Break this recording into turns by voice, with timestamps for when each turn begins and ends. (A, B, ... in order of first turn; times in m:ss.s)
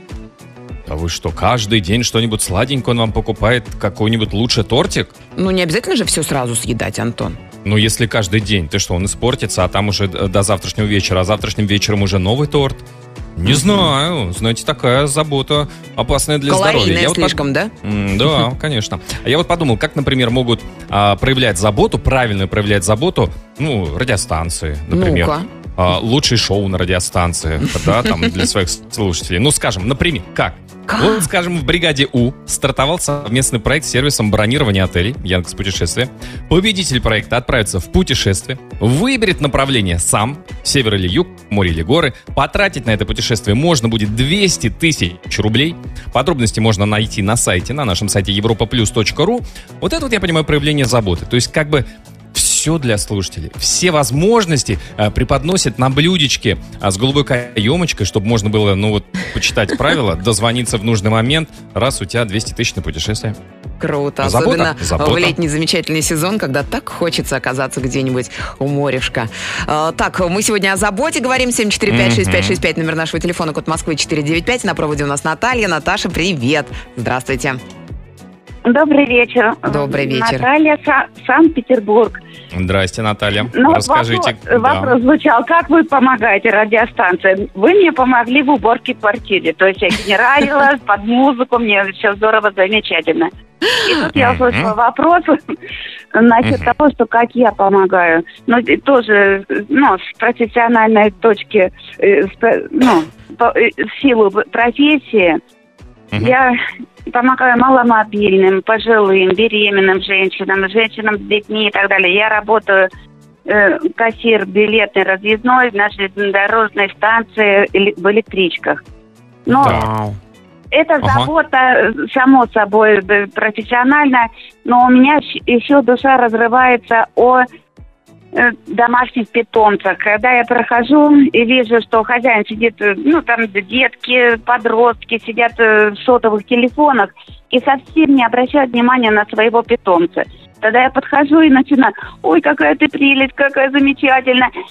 0:00.9-0:05.1 A
0:05.4-0:07.4 B
0:07.6-1:03.4 A
0:13.4-0:13.9 B
0:16.5-0:17.7 B
0:24.9-0:25.5 B
0:27.8-0:28.3 B
0:30.9-0:31.2 B
1:03.8-1:17.6 B
1:04.2-1:05.4 A
1:11.9-1:12.6 A
1:18.7-1:22.2 C
1:19.7-1:20.5 B
1:22.5-1:24.9 A
1:23.5-1:33.3 C
1:33.8-1:35.4 C
1:34.1-1:34.7 A
1:36.1-1:45.4 C
1:36.4-1:36.7 A
1:46.1-1:46.5 C
1:47.1-1:52.9 C
1:53.4-1:58.8 C
1:59.5-1:59.8 C
1:59.5-2:00.2 B
1:59.6-1:59.9 A
2:00.7-2:07.4 C
2:01.0-2:01.3 A
2:08.3-2:24.5 C